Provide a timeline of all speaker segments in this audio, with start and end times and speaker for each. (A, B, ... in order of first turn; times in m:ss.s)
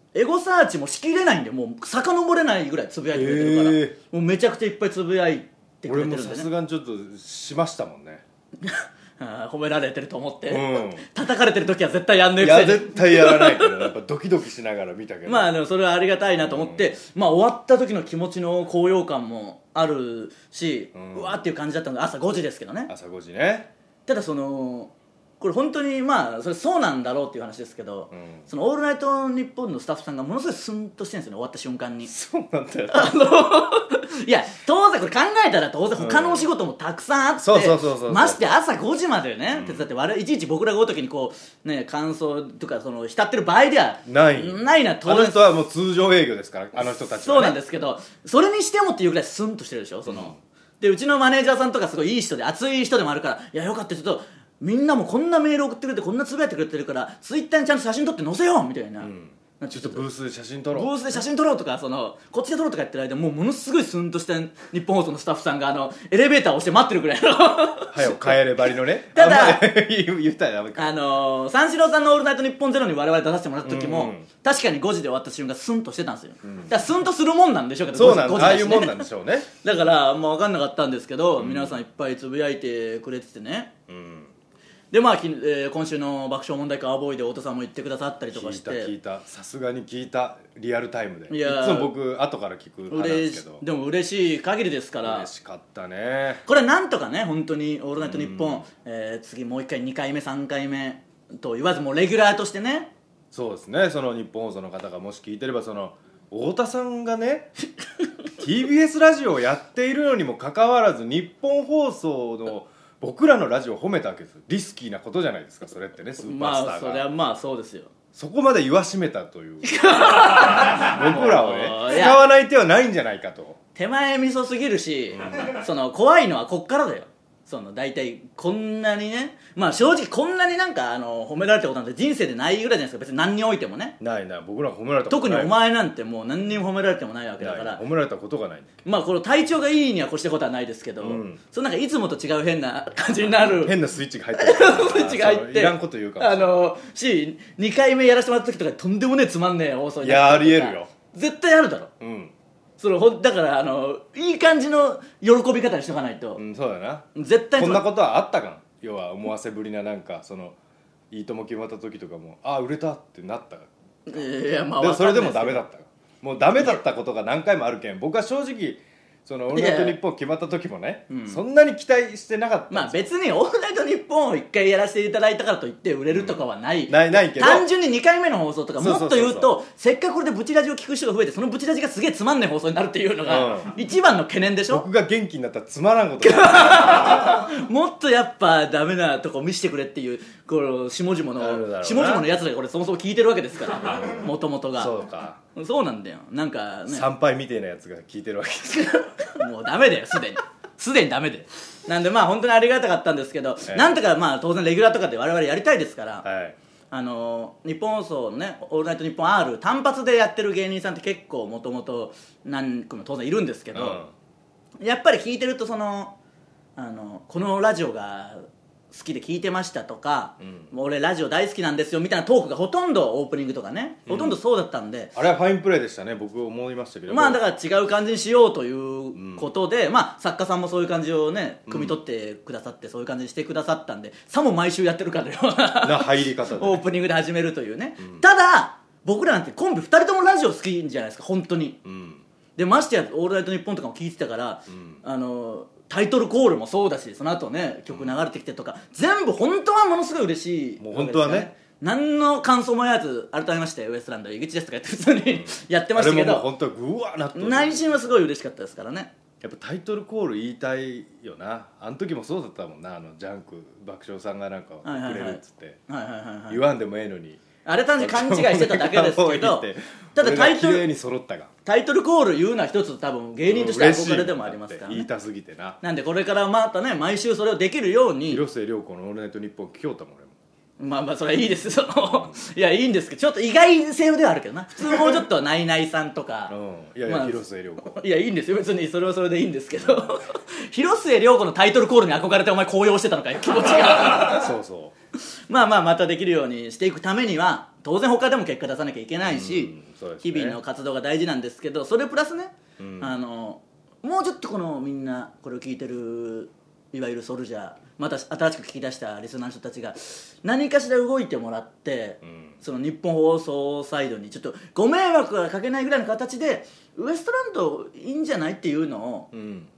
0:00.1-0:06.5 A
0:03.1-0:04.0 B
0:05.8-0:08.2 B
0:08.6-0:13.9 A
0:10.5-0:11.0 B
0:12.4-0:15.5 B
0:15.2-0:22.9 A
0:16.4-0:16.9 B
0:20.9-0:21.4 B
0:22.9-0:23.7 B
0:24.1-0:32.1 A
0:28.1-0:28.4 B
0:32.1-0:33.2 B
0:32.9-0:45.4 A
0:36.0-0:36.5 B
0:37.4-0:38.5 B
0:39.5-0:39.9 B
0:44.0-0:47.6 B
0:47.1-1:00.0 A
0:50.1-0:50.4 B
0:59.0-1:00.9 B
1:00.7-1:08.4 A
1:07.9-1:11.0 B
1:09.1-1:09.7 A
1:10.8-1:19.0 A
1:13.6-1:14.3 B
1:16.4-1:16.7 B
1:17.9-1:19.5 B
1:19.6-1:23.7 A
1:21.4-1:21.8 B
1:23.9-1:24.3 B
1:24.9-1:28.9 A
1:28.3-1:33.6 B
1:31.3-1:31.9 A
1:32.9-1:35.3 A
1:35.0-1:36.4 B
1:36.4-1:42.9 A
1:38.0-1:38.6 B
1:43.3-1:47.5 B
1:48.4-1:57.1 B
1:56.2-1:57.9 A
1:58.1-2:03.6 B
1:59.6-2:02.2 A
2:03.7-2:14.0 A
2:14.0-2:15.5 B
2:15.1-2:17.8 A
2:17.4-2:18.8 B
2:18.8-2:23.8 A
2:21.0-2:21.4 B
2:23.4-2:26.6 B
2:24.4-2:31.9 A
2:30.0-2:30.9 B
2:32.0-2:32.3 B
2:32.8-2:36.4 A
2:36.4-2:40.6 B
2:37.1-2:37.9 A
2:41.1-2:44.2 B
2:44.1-2:45.6 A
2:44.8-2:53.1 B
2:49.5-2:50.0 A
2:51.1-2:51.4 A
2:52.7-3:04.8 A
2:56.1-2:57.7 B
2:58.8-2:59.5 B
3:03.2-3:03.7 B
3:04.7-3:07.5 B
3:06.2-3:14.9 A
3:11.4-3:12.3 B
3:13.8-3:14.2 B
3:14.8-3:15.4 B
3:15.5-3:17.0 A
3:16.9-3:19.0 B
3:18.8-3:26.2 A
3:23.7-3:23.9 B
3:26.2-3:26.6 B
3:26.9-3:34.0 A
3:33.7-3:34.1 B
3:34.8-3:36.1 A
3:36.8-3:45.1 A
3:44.1-3:44.4 B
3:45.1-3:47.4 B
3:47.1-4:01.8 A
3:49.1-3:49.5 B
3:51.7-3:52.0 B
3:55.8-3:56.8 B
4:01.8-4:02.2 B
4:02.6-4:16.5 A
4:04.7-4:05.0 B
4:07.9-4:08.2 B
4:10.8-4:11.5 B
4:15.3-4:18.2 B
4:17.3-4:19.1 A
4:19.4-4:25.8 B
4:24.8-4:26.6 A
4:26.5-4:27.4 B
4:27.6-4:30.8 A
4:28.0-4:31.5 B
4:31.6-4:35.1 A
4:33.4-4:35.8 B
4:35.8-4:38.4 A
4:38.3-4:40.3 B
4:40.8-4:46.5 A
4:42.0-4:42.4 B
4:46.5-4:48.0 B
4:47.0-4:54.5 A
4:49.8-4:50.2 B
4:54.2-4:54.9 B
4:55.5-5:19.3 A
4:59.2-5:00.6 B
5:02.8-5:03.1 B
5:12.2-5:12.5 B
5:19.3-5:19.7 B